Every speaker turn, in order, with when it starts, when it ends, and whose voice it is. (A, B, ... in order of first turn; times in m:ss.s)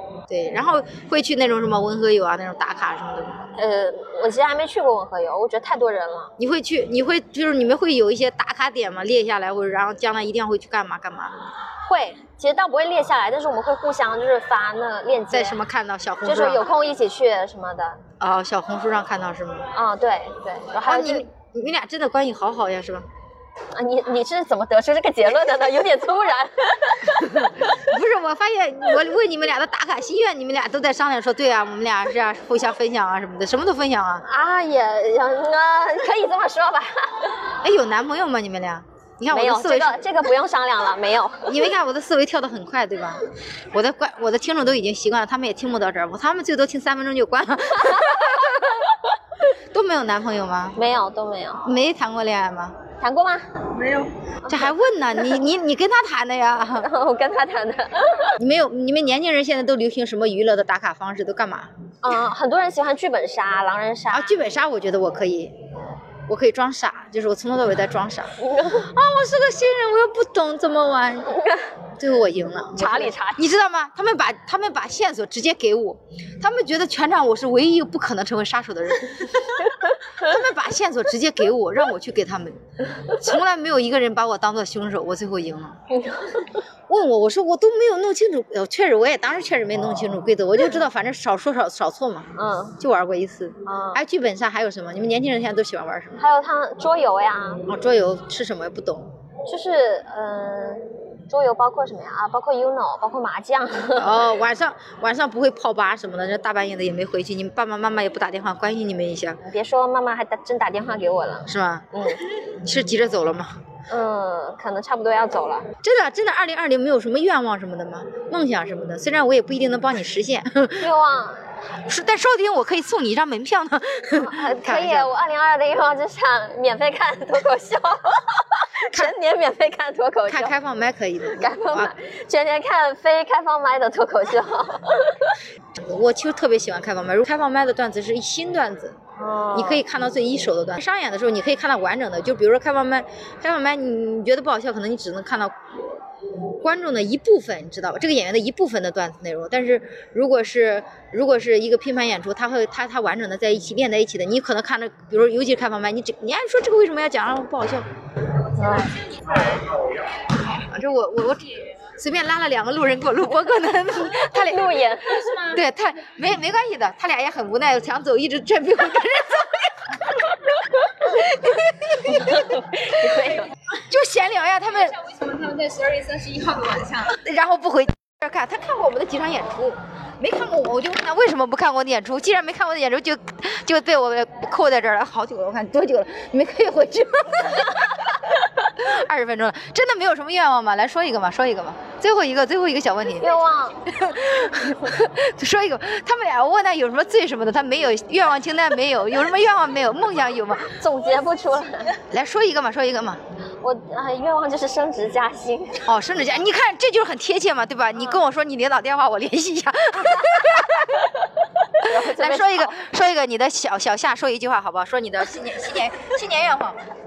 0:00.3-0:03.5 A
0:03.5-0:06.3 B
0:06.4-0:11.5 A
0:11.8-0:15.6 B
0:15.3-0:16.7 A
0:16.2-0:18.0 B
0:18.2-0:19.7 A
0:19.7-0:21.2 B
0:20.8-0:23.1 A
0:23.7-0:27.5 B
0:27.1-0:34.2 A
0:34.2-0:37.4 B
0:37.6-0:40.0 A
0:39.3-0:41.7 B
0:41.4-0:49.1 A
0:49.7-0:50.8 A
0:50.8-0:51.8 B
0:51.6-0:52.8 A
0:53.0-0:53.5 B
0:53.7-0:54.1 C
0:54.4-0:54.7 B
0:54.5-0:56.9 A
0:56.8-0:58.4 B
0:58.4-1:01.7 A
1:02.0-1:04.4 B
1:04.1-1:05.6 A
1:06.3-1:11.4 A
1:08.4-1:08.9 B
1:11.3-1:11.7 B
1:12.0-1:25.8 A
1:12.8-1:13.5 B
1:19.6-1:19.9 B
1:25.9-1:26.6 B
1:26.9-1:36.2 A
1:32.4-1:32.8 B
1:33.6-1:34.0 B
1:36.2-1:37.7 B
1:37.7-1:39.1 A
1:39.4-1:44.2 B
1:44.0-1:49.4 A
1:49.4-1:52.3 B
1:51.5-1:53.6 A
1:53.9-1:55.7 B
1:55.8-2:00.9 A
2:00.8-2:01.5 B
2:01.8-2:05.1 A
2:04.1-2:10.5 B
2:10.3-2:11.9 A
2:11.3-2:15.4 B
2:15.7-2:19.0 A
2:19.2-2:19.8 B
2:19.5-2:37.9 A
2:38.5-2:39.0 B
2:40.5-2:52.9 A
2:44.2-2:45.4 B
2:52.0-2:53.5 B
2:53.7-2:55.0 A
2:54.9-2:57.2 C
2:57.1-3:20.8 A
3:13.2-3:13.9 B
3:20.7-3:22.0 B
3:22.0-3:23.2 A
3:23.6-3:25.8 B
3:25.8-3:31.2 A
3:31.7-3:32.7 B
3:31.8-3:36.8 A